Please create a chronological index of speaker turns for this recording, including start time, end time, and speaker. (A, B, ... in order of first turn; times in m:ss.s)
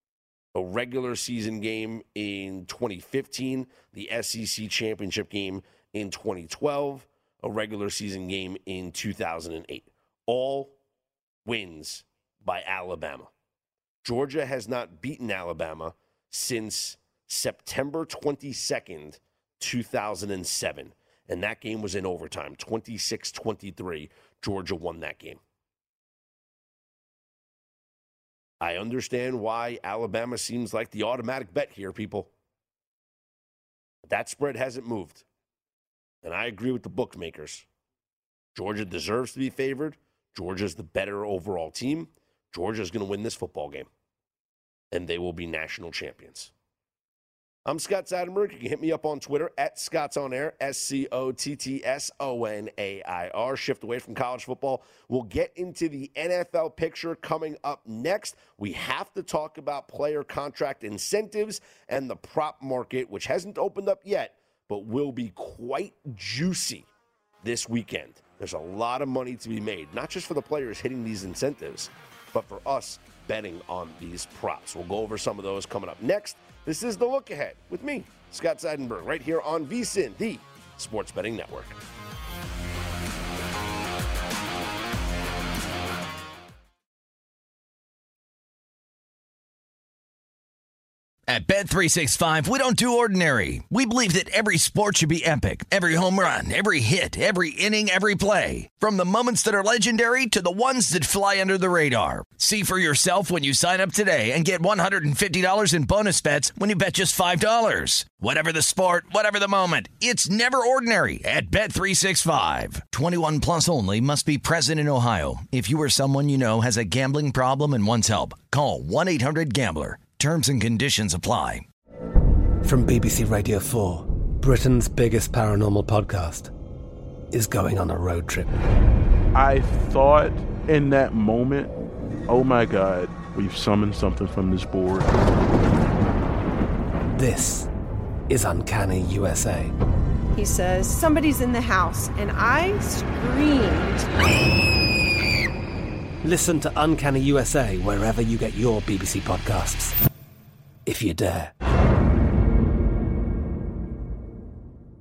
0:00.5-0:10.8 A
0:11.4-0:13.3 A
0:14.0-0:25.4 A
0:28.6-0:32.3 A
0:34.0-0:35.2 A
0:36.2-0:37.6 A
0:38.5-0:43.9 A
0:44.9-0:46.5 A
0:47.6-1:06.9 A
1:07.4-1:21.8 A
1:31.3-2:01.6 B
2:02.6-2:06.5 C
2:07.3-2:08.6 C
2:09.3-2:11.7 D
2:12.3-2:15.1 D
2:17.2-2:17.7 C
2:18.3-2:19.7 C
2:20.4-2:24.1 E
2:26.2-2:30.0 C
2:30.9-2:31.5 C